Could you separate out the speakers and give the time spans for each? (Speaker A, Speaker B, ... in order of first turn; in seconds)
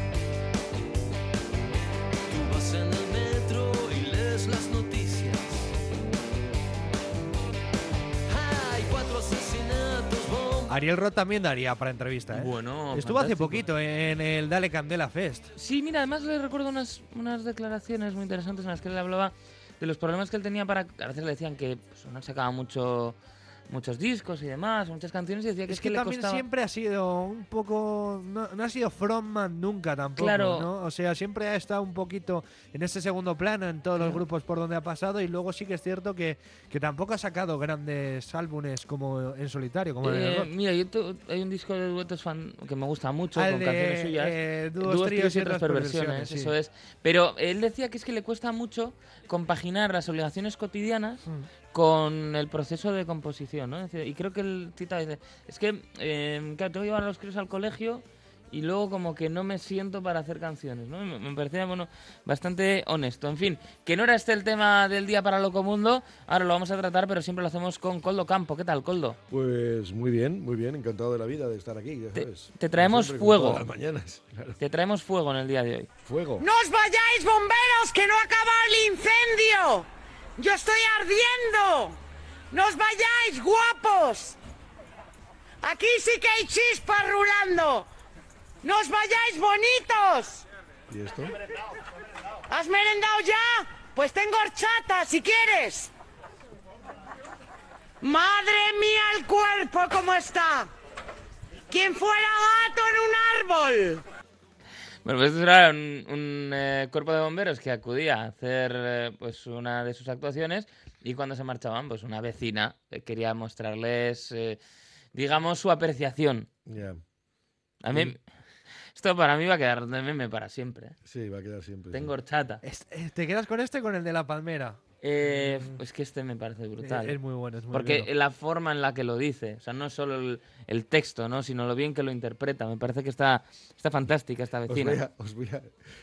Speaker A: 2.3-5.7, 8.3-10.7
Speaker B: 10.7-15.5, 25.7-40.5, 43.4-46.5, 122.6-124.8, 125.5-125.7, 126.8-128.1
Speaker C: 12.3-13.7, 15.6-26.4, 30.2-30.7, 40.0-69.2, 72.2-73.7, 74.6-75.9, 105.0-114.6, 115.1-116.5, 117.8-118.2, 118.9-121.0, 121.9-122.6, 125.0-127.2, 127.7-135.0
Speaker D: 69.3-74.6, 76.0-76.5, 90.9-91.4, 116.7-117.0, 121.1-122.1, 134.7-135.7
Speaker E: 76.4-82.0, 82.5-84.4, 85.6-87.9, 88.6-90.5, 92.5-95.9, 98.0-100.7, 101.7-104.0